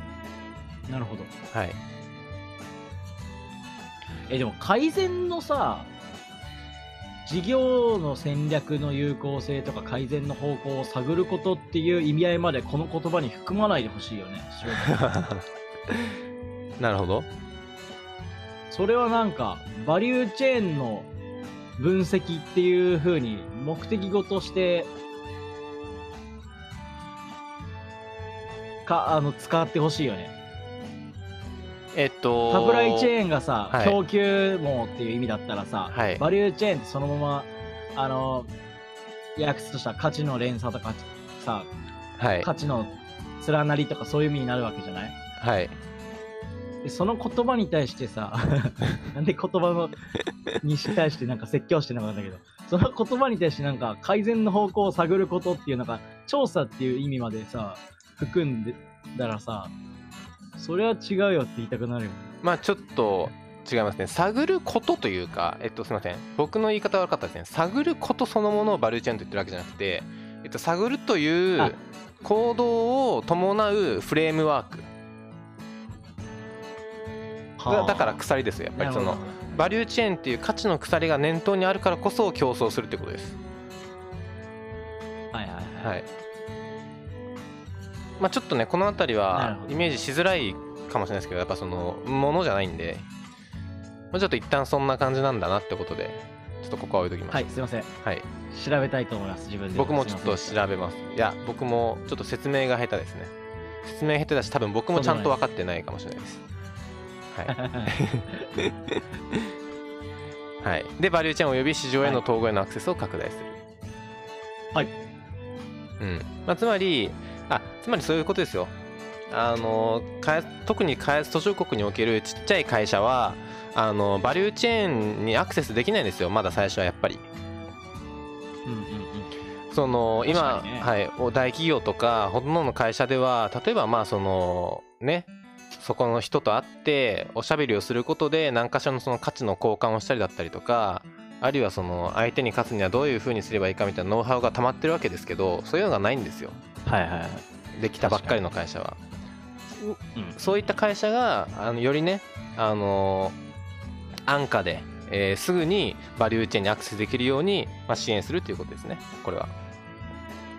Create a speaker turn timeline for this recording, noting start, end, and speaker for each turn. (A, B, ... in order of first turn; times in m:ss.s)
0:00.9-0:01.3 A
0:01.5-0:01.8 B
0:04.3-0:05.9 A
0:07.2-0:15.0 A
0:14.7-0:16.1 B
0:16.8-0:17.3 B
0:18.7-0:21.1 A
0:21.8-0:24.9 A
0:28.8-0:30.3 A
0:31.9-0:33.1 B
0:32.5-0:38.5 A
0:33.7-0:34.0 B
0:35.9-0:36.2 B
0:39.4-0:41.7 A
0:42.2-0:42.5 B
0:42.4-0:45.2 A
0:45.4-0:45.8 B
0:46.8-0:50.0 A
0:50.6-0:59.7 A
1:00.6-1:02.3 A
1:02.4-1:14.9 B
1:17.6-1:18.2 A
1:17.7-1:23.4 B
1:18.8-1:19.4 A
1:25.3-1:25.9 A
1:25.8-1:26.1 B
1:28.2-1:33.1 B
1:29.3-1:29.9 A
1:34.1-1:38.2 B
1:37.3-1:37.9 A
1:38.5-1:40.6 A
1:39.7-1:46.4 B
1:44.9-1:45.3 A
1:47.3-1:49.5 B
1:47.5-1:48.4 A
1:50.6-1:53.6 B
1:56.0-1:58.7 B
1:59.3-2:07.3 B
2:08.6-2:09.3 A
2:09.7-2:26.6 B
2:10.2-2:10.9 A
2:26.8-2:27.4 A
2:27.8-2:29.0 B
2:28.0-2:28.4 A
2:29.7-2:33.4 B
2:34.2-2:39.5 B